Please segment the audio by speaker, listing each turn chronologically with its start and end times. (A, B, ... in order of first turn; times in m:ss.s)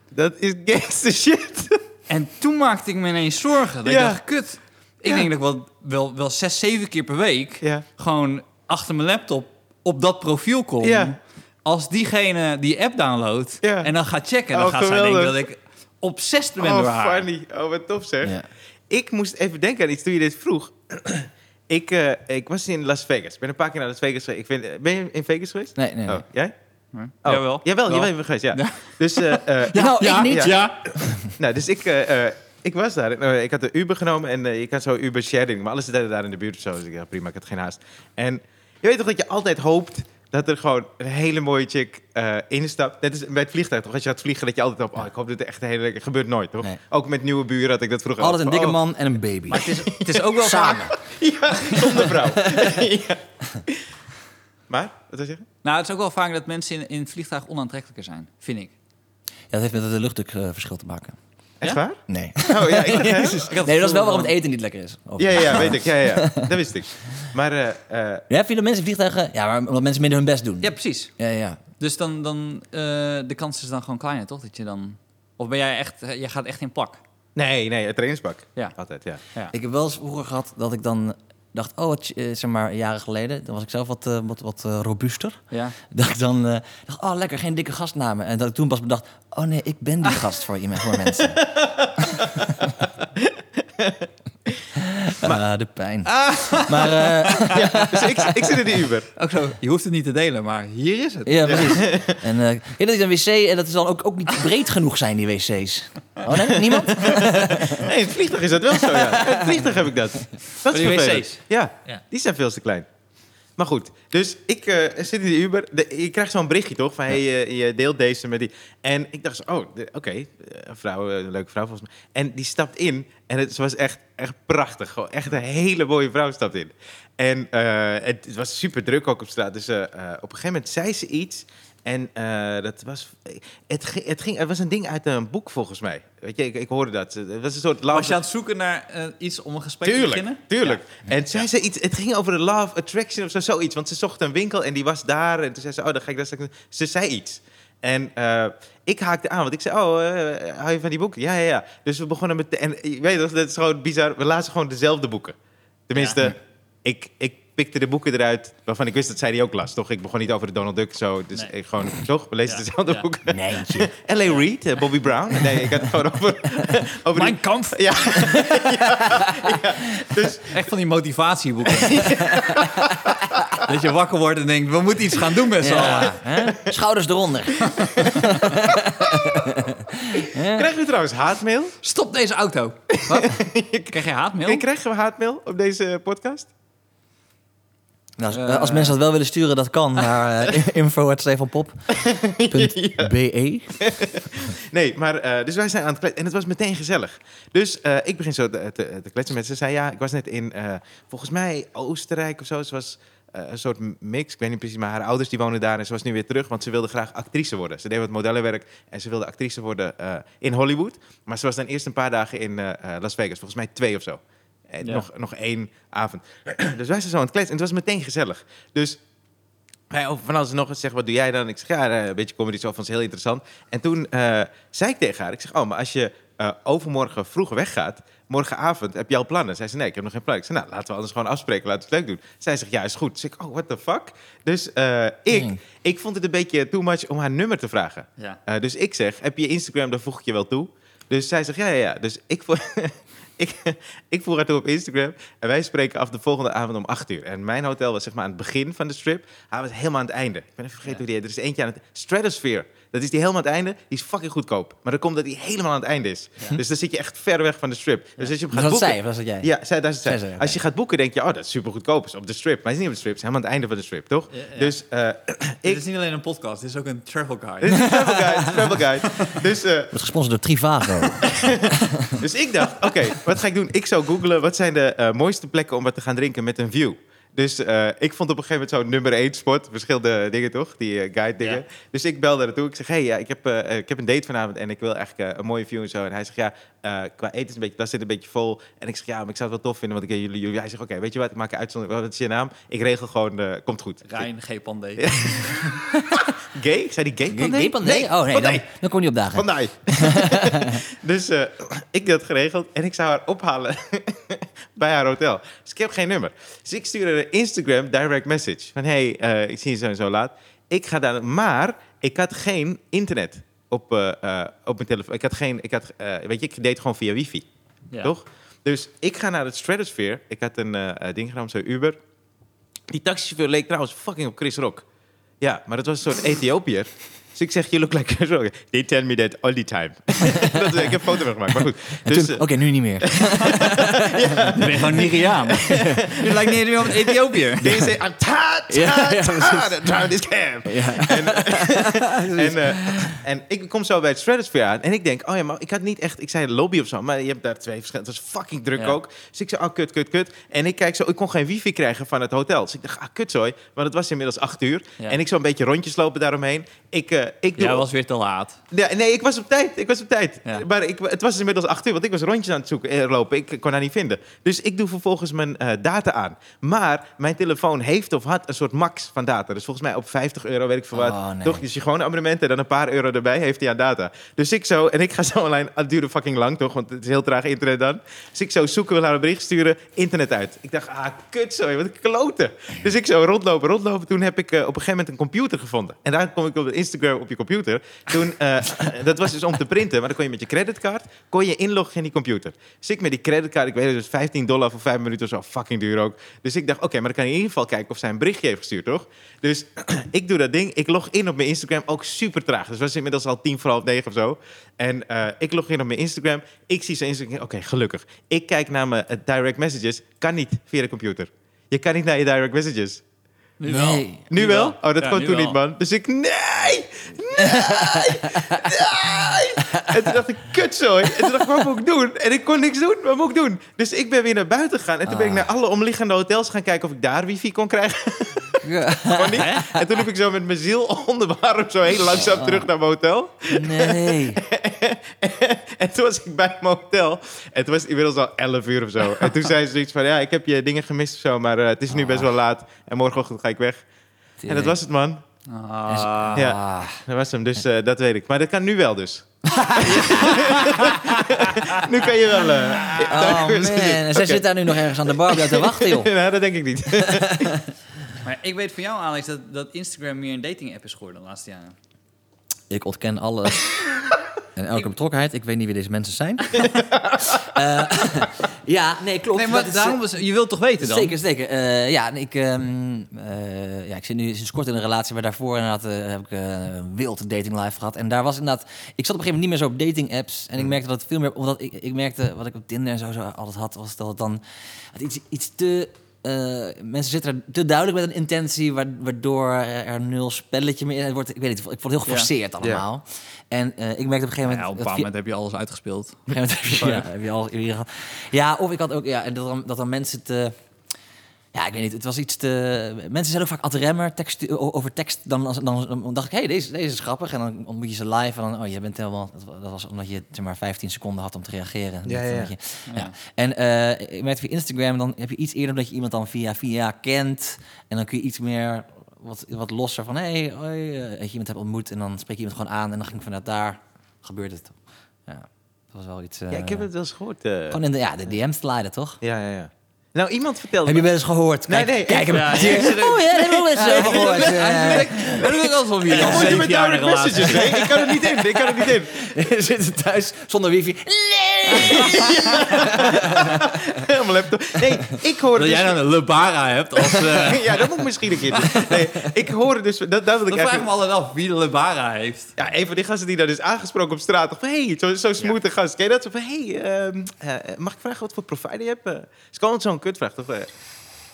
0:00.1-0:01.8 A
0:02.1-0:17.3 B
0:03.8-0:04.2 A
0:10.8-0:11.1 A
0:13.6-0:13.9 A
0:14.5-0:15.4 A
0:16.6-0:26.5 A
0:25.8-0:26.2 C
0:26.9-0:30.9 B
0:27.2-0:30.6 A
0:29.7-0:31.3 C
0:31.2-0:48.8 A
0:48.2-0:51.0 C
0:49.5-0:50.9 B
0:51.0-0:53.8 A
0:51.6-0:52.1 B
0:52.2-0:52.9 C
0:54.7-0:55.4 A
0:55.6-0:58.7 B
0:59.5-1:01.2 C
1:01.6-1:03.5 A
1:02.1-1:06.5 C
1:03.0-1:04.3 B
1:05.2-1:08.3 A
1:08.3-1:11.6 C
1:10.6-1:11.1 B
1:11.8-1:17.0 B
1:17.3-1:19.2 A
1:19.5-1:31.4 C
1:25.5-1:25.8 B
1:31.4-1:32.6 A
1:32.0-1:32.5 C
1:33.2-1:34.1 A
1:34.8-1:38.5 C
1:36.0-1:37.5 B
1:37.5-1:39.1 A
1:39.2-1:41.8 B
1:41.2-1:47.9 C
1:41.4-1:42.2 A
1:46.5-1:52.8 A
1:48.8-1:49.6 C
1:50.6-1:52.0 B
1:53.6-2:18.2 A
2:17.9-2:20.8 B
2:19.8-2:35.4 A
2:35.9-2:50.6 A
2:35.9-2:36.3 B
2:42.4-2:43.0 B
2:43.3-2:43.9 C
2:45.4-2:45.9 C
2:47.1-2:48.2 B
2:48.2-2:49.9 C
2:50.4-2:52.2 B
2:51.8-2:53.6 A
2:52.0-2:53.1 C
2:53.6-2:56.2 B
2:55.6-3:00.7 C
2:55.8-2:56.7 A
2:57.7-2:58.3 B
2:58.7-2:59.5 A
3:00.1-3:01.7 A
3:01.8-3:04.6 B
3:03.1-3:03.9 A
3:04.4-3:06.5 A
3:08.2-3:11.9 C
3:08.3-3:09.0 B
3:11.9-3:13.1 A
3:12.5-3:13.9 C
3:13.8-3:39.0 A
3:39.9-4:25.8 A
3:55.3-3:55.6 C
4:18.5-4:19.5 C
4:20.0-4:20.6 C
4:24.3-4:24.7 B
4:25.6-4:27.9 B
4:27.6-4:30.0 A
4:27.7-4:28.8 C
4:29.9-4:32.2 C
4:31.2-4:54.2 A
4:54.0-4:55.7 B
4:55.0-4:58.6 A
4:57.3-5:00.8 C
4:59.3-5:17.4 A
5:18.0-5:22.0 A
5:22.9-5:24.8 A
5:25.4-5:32.4 A
5:30.2-5:36.1 C
5:33.0-5:36.9 A
5:34.5-5:37.8 B
5:37.6-5:57.8 A
5:38.7-5:39.9 C
5:40.6-5:43.2 C
5:57.6-5:58.6 B
5:58.7-6:53.0 A
6:10.9-6:11.6 C
6:53.6-6:55.6 B
6:53.7-6:54.2 C
6:54.3-7:23.8 A
6:57.3-6:58.7 C
6:59.6-7:00.2 C
7:01.1-7:01.5 C
7:05.0-7:05.5 C
7:08.6-7:09.9 C
7:09.4-7:09.7 B
7:12.1-7:12.7 C
7:13.5-7:14.4 C
7:21.9-7:22.3 C
7:24.4-7:24.8 C
7:24.5-7:25.2 A
7:25.5-7:26.5 B
7:25.9-7:27.0 C
7:26.3-7:37.6 A
7:29.5-7:30.4 C
7:30.0-7:31.9 B
7:32.9-7:36.1 C
7:37.0-7:37.6 C
7:38.2-7:41.8 B
7:42.7-7:43.9 C
7:44.6-7:46.7 C
7:46.9-7:47.4 A
7:47.2-7:50.0 C
7:49.3-7:51.1 B
7:50.8-8:04.4 C
8:04.9-8:15.1 C
8:14.4-8:17.1 B
8:16.3-8:20.5 C
8:21.5-8:46.9 C
8:32.0-8:32.5 A
8:32.9-8:33.1 B
8:46.5-8:47.8 A
8:47.7-8:49.2 C
8:49.2-8:51.1 A
8:50.8-8:56.6 C
8:51.7-8:53.2 A
8:52.2-8:57.7 B
8:53.7-8:55.4 A
8:56.1-8:59.3 A
8:57.4-9:04.1 C
9:01.7-9:02.1 B
9:01.8-9:06.0 A
9:04.8-9:05.1 C
9:05.5-9:07.8 B
9:07.1-9:10.9 A
9:08.7-9:09.3 C
9:10.5-9:12.5 B
9:12.6-9:20.7 A